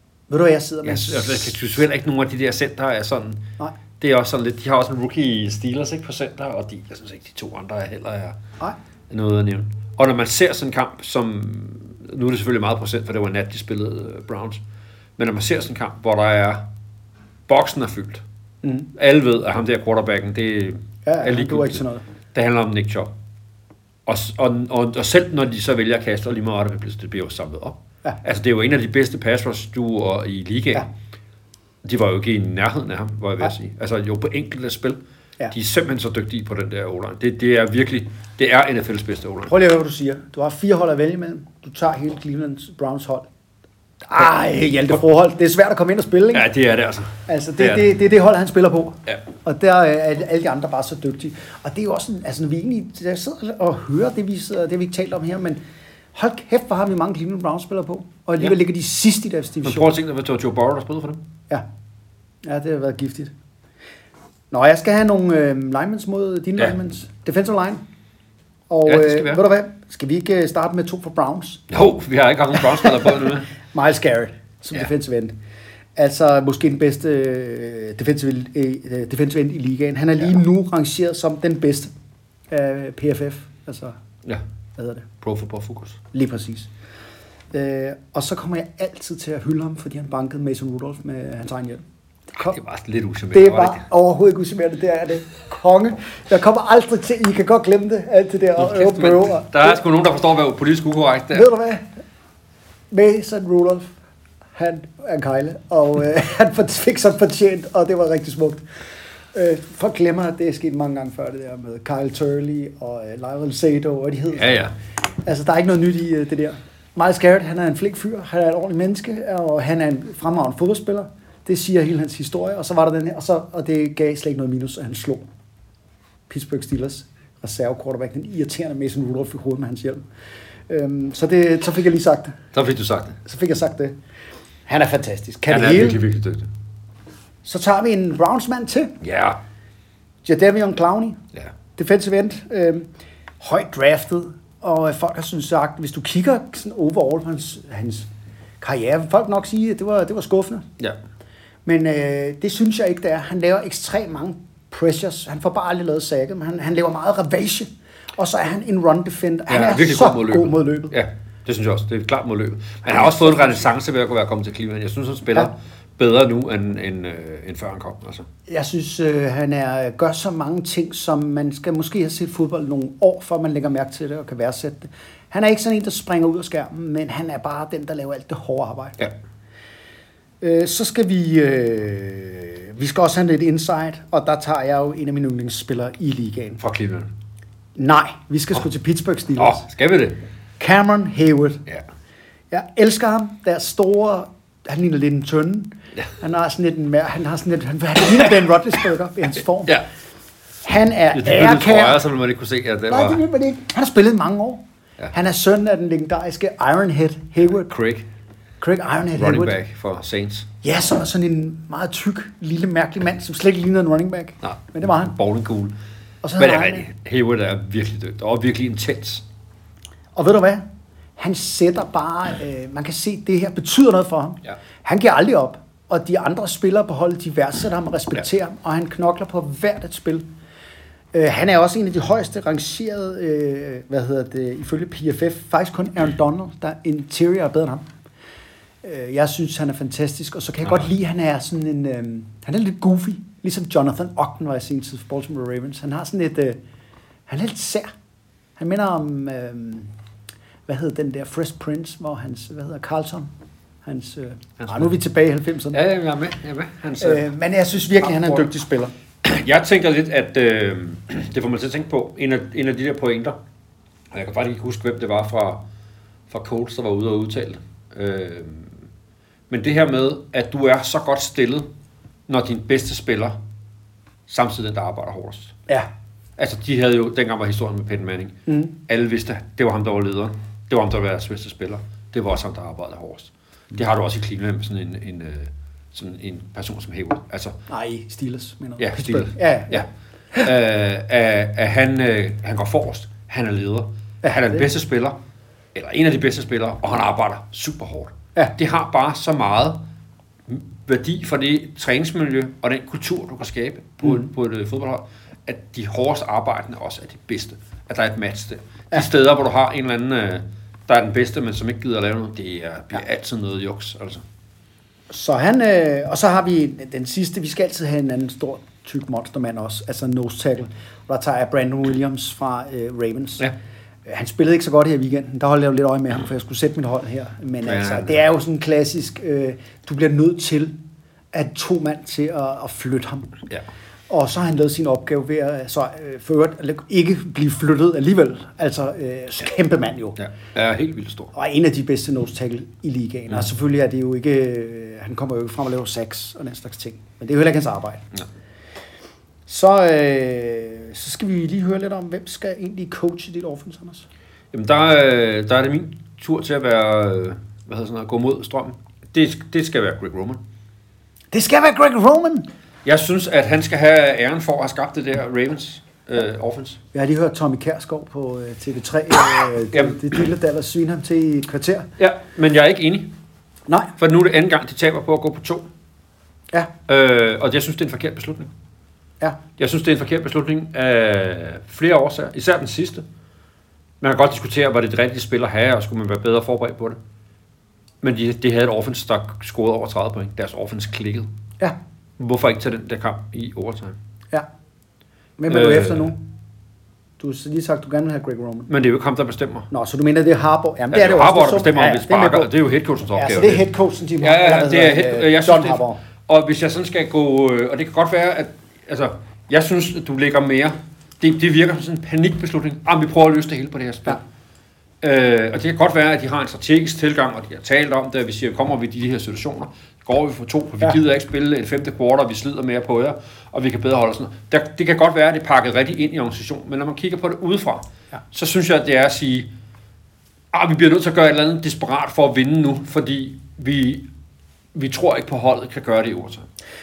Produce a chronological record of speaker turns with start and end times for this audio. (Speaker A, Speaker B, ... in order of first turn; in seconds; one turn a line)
Speaker A: 0.3-1.5
Speaker B: 0.8-3.5
Speaker B: 4.0-8.4
Speaker B: 9.1-14.6
Speaker B: 15.2-16.7
Speaker B: 17.5-18.2
Speaker A: 18.6-18.9
Speaker B: 18.9-21.8
Speaker A: 21.0-22.0
Speaker B: 22.3-23.1
Speaker B: 24.1-30.9
Speaker B: 31.8-35.0
Speaker B: 35.5-39.5
Speaker A: 39.5-43.3
Speaker A: 44.0-46.5
Speaker B: 46.3-47.9
Speaker A: 47.3-55.6
Speaker A: 56.1-59.9
Speaker B: 59.6-61.2
Speaker A: 62.4-63.3
Speaker A: 64.5-67.8
Speaker A: 68.7-71.6
Speaker B: 68.8-69.4
Speaker B: 71.7-73.5
Speaker A: 72.7-75.3
Speaker A: 76.0-81.9
Speaker A: 82.5-84.0
Speaker A: 84.8-85.1
Speaker B: 85.2-86.0
Speaker A: 86.1-86.7
Speaker A: 87.5-92.6
Speaker B: 92.4-93.8
Speaker A: 93.3-99.8
Speaker B: 98.6-101.5
Speaker A: 101.3-102.0
Speaker A: 102.9-103.9
Speaker A: 104.5-108.6
Speaker A: 109.3-114.7
Speaker B: 114.3-114.7
Speaker A: 115.2-125.2
Speaker A: 126.3-130.0
Speaker A: 130.7-132.4
Speaker B: 132.5-133.2
Speaker A: 133.2-133.9
Speaker A: 134.7-136.0
Speaker B: 135.5-136.5
Speaker A: 137.4-139.0
Speaker B: 139.0-139.4
Speaker A: 140.2-141.2
Speaker A: 141.8-142.9
Speaker A: 143.4-148.1
Speaker A: 148.6-150.7
Speaker A: 151.7-160.9
Speaker B: 159.5-168.3
Speaker A: 162.8-163.7
Speaker A: 168.5-179.0
Speaker A: 180.4-186.6
Speaker B: 186.6-187.1
Speaker A: 187.8-189.7
Speaker B: 189.4-190.2
Speaker A: 190.6-191.6
Speaker A: 192.5-199.8
Speaker A: 200.6-202.0
Speaker B: 201.1-203.2
Speaker A: 202.9-207.7
Speaker B: 207.4-208.1
Speaker A: 208.6-209.6
Speaker B: 209.1-210.5
Speaker A: 210.6-215.1
Speaker B: 214.4-215.8
Speaker A: 216.2-216.9
Speaker B: 216.4-219.2
Speaker A: 220.2-220.6
Speaker A: 221.2-230.2
Speaker A: 231.1-237.8
Speaker A: 238.8-246.6
Speaker A: 247.3-247.9
Speaker A: 248.6-249.9
Speaker A: 250.7-253.3
Speaker A: 253.8-255.8
Speaker B: 254.6-254.9
Speaker B: 255.7-257.2
Speaker A: 257.0-258.9
Speaker B: 258.0-258.5
Speaker B: 259.2-263.4
Speaker B: 264.1-265.6
Speaker B: 266.3-268.8
Speaker B: 269.5-271.7
Speaker B: 272.3-273.4
Speaker B: 274.3-275.6
Speaker B: 276.4-287.6
Speaker A: 278.5-278.7
Speaker A: 287.7-290.5
Speaker B: 288.8-289.9
Speaker B: 290.4-295.2
Speaker A: 294.2-294.6
Speaker B: 295.7-299.8
Speaker B: 300.5-314.2
Speaker A: 315.1-323.5
Speaker A: 324.1-330.7
Speaker B: 327.6-328.2
Speaker A: 331.3-333.4
Speaker A: 334.1-340.2
Speaker B: 340.2-341.3
Speaker A: 341.3-348.0
Speaker A: 349.5-354.0
Speaker B: 354.5-360.4
Speaker A: 361.3-362.5
Speaker B: 362.8-366.8
Speaker A: 366.9-371.9
Speaker B: 369.7-370.0
Speaker B: 372.0-373.1
Speaker A: 373.7-373.9
Speaker B: 374.0-375.7
Speaker B: 376.9-378.5
Speaker B: 379.6-383.0
Speaker B: 384.0-387.0
Speaker B: 388.0-391.3
Speaker B: 392.2-393.9
Speaker A: 395.4-396.2
Speaker B: 395.5-396.1
Speaker A: 397.2-398.7
Speaker B: 398.7-399.7
Speaker A: 399.7-402.5
Speaker B: 400.9-403.7
Speaker A: 403.1-406.0
Speaker B: 404.2-414.2
Speaker B: 415.0-429.5
Speaker B: 430.5-434.1
Speaker B: 434.7-436.5